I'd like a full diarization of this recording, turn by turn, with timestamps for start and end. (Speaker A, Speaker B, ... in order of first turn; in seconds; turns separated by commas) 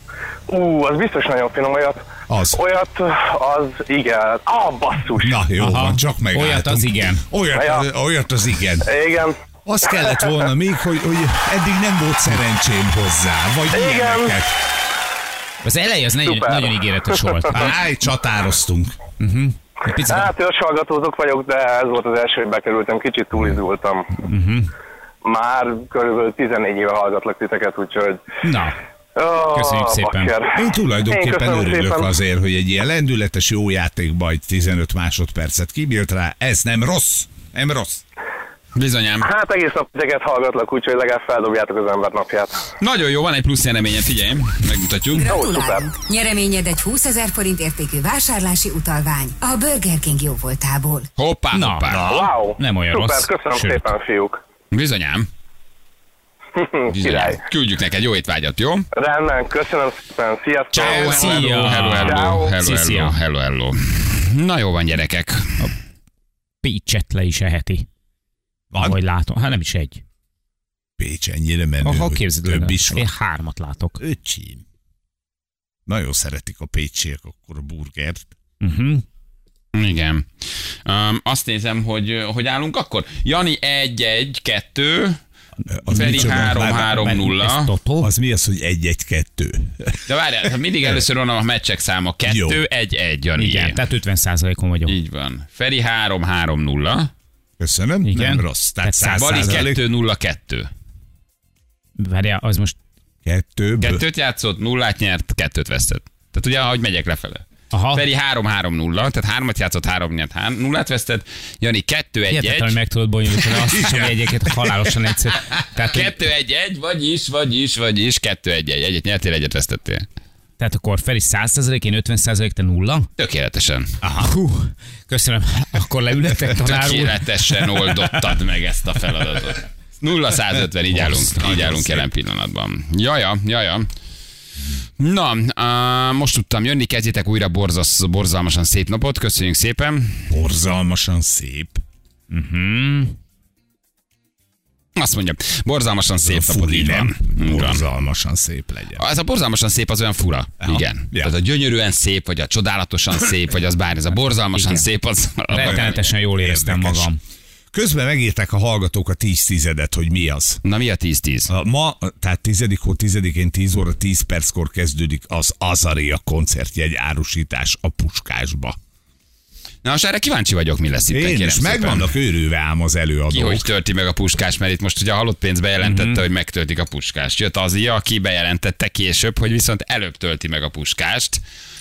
Speaker A: 0.5-5.4, Speaker B: 2.3-2.6, Speaker B: 5.2-8.9, Speaker C: 5.6-7.2, Speaker A: 7.5-7.9, Speaker A: 8.8-9.4, Speaker B: 9.7-14.6, Speaker A: 13.7-14.3, Speaker C: 15.6-17.8, Speaker A: 16.2-17.2, Speaker B: 17.5-18.9, Speaker C: 19.2-20.3, Speaker A: 20.1-24.1, Speaker C: 24.1-24.7, Speaker A: 25.2-28.2, Speaker C: 28.4-28.8, Speaker A: 29.1-32.1, Speaker C: 29.5-30.3, Speaker B: 30.5-38.0, Speaker D: 38.7-39.3, Speaker A: 39.2-42.6, Speaker D: 42.8-45.4, Speaker E: 45.1-51.1, Speaker A: 45.3-45.9, Speaker D: 51.2-52.2, Speaker C: 51.5-52.0, Speaker B: 51.9-52.3, Speaker A: 52.0-54.4, Speaker C: 52.5-53.9, Speaker D: 54.7-55.3, Speaker A: 56.5-57.4, Speaker D: 56.9-58.9, Speaker A: 58.9-62.5, Speaker C: 60.7-63.1, Speaker D: 60.7-65.7, Speaker C: 66.6-67.9, Speaker B: 68.7-69.0, Speaker C: 68.8-70.0, Speaker B: 71.0-73.1, Speaker C: 71.8-74.0, Speaker B: 74.0-74.6, Speaker B: 75.9-78.3, Speaker C: 78.6-79.0, Speaker D: 79.7-85.2, Speaker B: 85.7-87.0, Speaker C: 85.9-88.1, Speaker D: 85.9-87.7, Speaker B: 88.0-90.0, Speaker D: 90.0-93.8, Speaker B: 92.2-92.6, Speaker C: 93.4-94.9, Speaker D: 94.9-97.1, Speaker B: 97.6-99.8, Speaker C: 98.0-99.6, Speaker D: 99.2-100.7, Speaker C: 102.0-102.8, Speaker B: 103.2-104.0, Speaker D: 103.8-112.7, Speaker C: 107.7-108.0, Speaker C: 112.3-116.1, Speaker B: 113.5-114.9, Speaker D: 115.9-120.0, Speaker C: 120.6-123.1, Speaker D: 123.2-124.0, Speaker B: 124.0-124.3, Speaker C: 124.2-127.7, Speaker D: 126.6-133.9, Speaker B: 130.9-132.1, Speaker D: 135.0-140.3, Speaker B: 140.3-141.8, Speaker C: 142.3-143.2, Speaker D: 144.9-147.8, Speaker B: 146.2-149.0, Speaker D: 149.0-156.0, Speaker B: 150.6-151.3, Speaker C: 154.5-154.8, Speaker C: 155.5-157.2, Speaker B: 155.6-157.1, Speaker B: 157.7-160.6, Speaker D: 160.6-161.5, Speaker B: 161.5-168.8, Speaker D: 169.8-172.1, Speaker B: 171.1-173.7, Speaker D: 173.3-181.4, Speaker C: 175.8-176.2